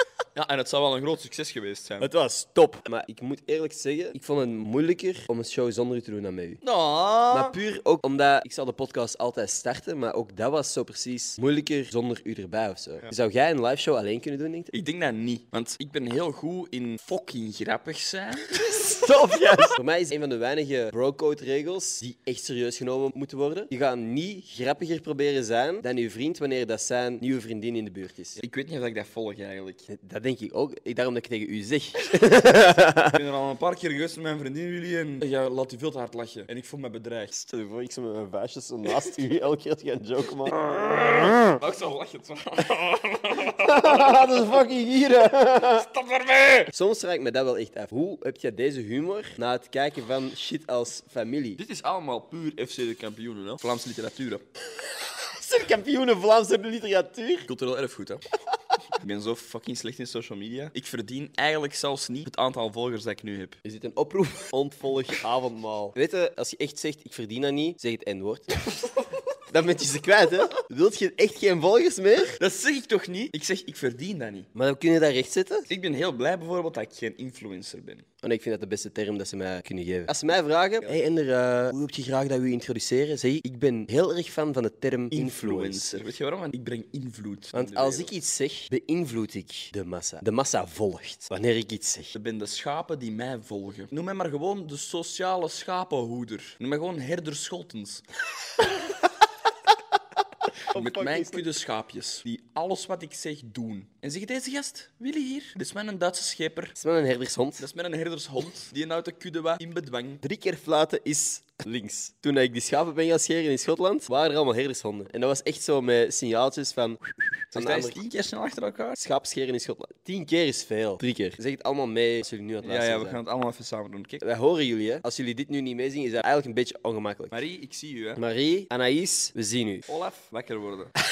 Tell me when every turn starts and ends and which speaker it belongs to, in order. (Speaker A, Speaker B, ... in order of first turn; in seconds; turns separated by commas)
Speaker A: 0.3-2.1, Speaker B: 2.0-6.6, Speaker A: 6.6-7.6, Speaker B: 7.3-14.7, Speaker A: 14.7-19.6, Speaker B: 18.6-28.4, Speaker A: 28.4-29.9, Speaker B: 29.9-33.2, Speaker A: 33.1-37.3, Speaker B: 37.3-41.2, Speaker A: 40.5-44.7, Speaker B: 43.5-45.9, Speaker A: 45.2-46.7, Speaker B: 46.7-51.6, Speaker A: 51.6-54.4, Speaker B: 54.9-57.5, Speaker A: 57.4-58.2, Speaker A: 59.0-63.6, Speaker B: 63.6-68.9, Speaker B: 69.5-72.4, Speaker A: 72.4-74.5, Speaker B: 74.5-75.7, Speaker A: 75.7-78.0, Speaker B: 78.2-85.9, Speaker A: 85.1-88.2, Speaker B: 87.5-92.1, Speaker A: 92.1-98.0, Speaker A: 100.7-106.8, Speaker B: 100.7-101.5, Speaker B: 106.8-107.7, Speaker A: 107.6-110.2, Speaker B: 110.2-118.0, Speaker A: 117.5-119.0, Speaker B: 119.0-123.2, Speaker A: 122.6-124.2, Speaker B: 124.2-127.4, Speaker A: 127.3-128.2, Speaker B: 128.2-130.0, Speaker A: 129.9-130.9